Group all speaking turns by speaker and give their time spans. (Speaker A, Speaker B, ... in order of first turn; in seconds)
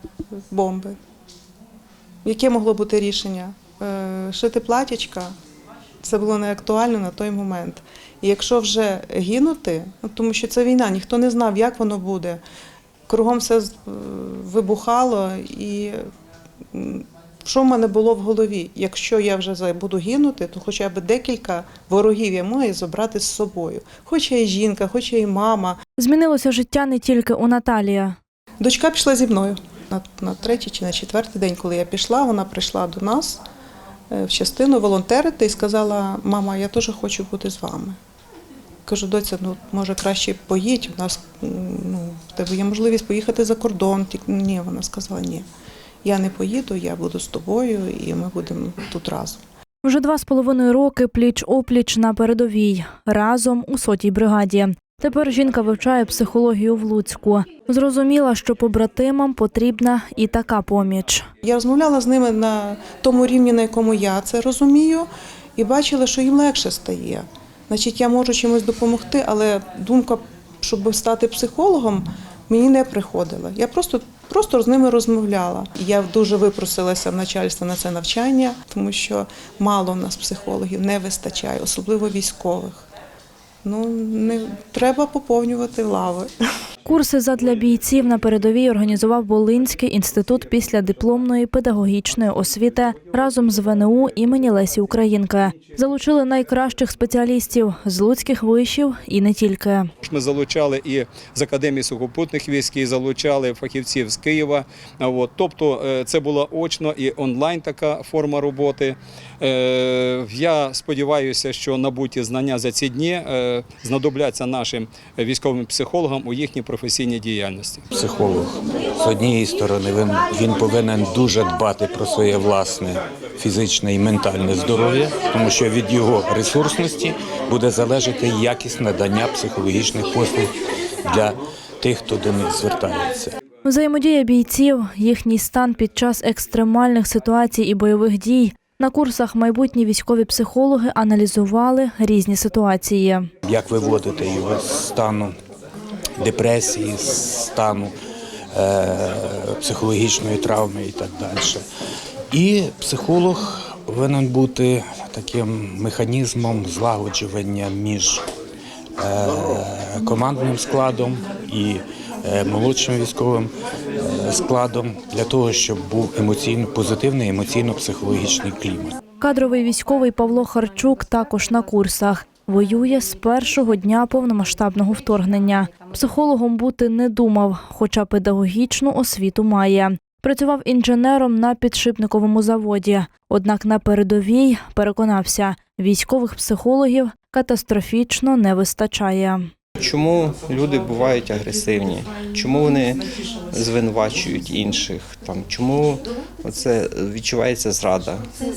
Speaker A: 0.5-0.9, 2.2-5.3, 6.0-12.4, 13.1-16.0, 16.7-25.8, 28.6-33.4, 34.1-38.0, 38.9-45.4, 46.0-49.4, 61.4-82.9, 83.6-86.3
Speaker B: 26.0-28.1, 49.8-61.2, 86.8-99.9, 133.6-143.3, 169.2-189.4
Speaker C: 100.0-117.8
Speaker D: 117.9-130.5, 131.0-133.3, 143.4-145.3, 146.2-147.9, 148.5-151.6, 152.3-158.2, 159.0-168.9
Speaker E: 189.8-198.3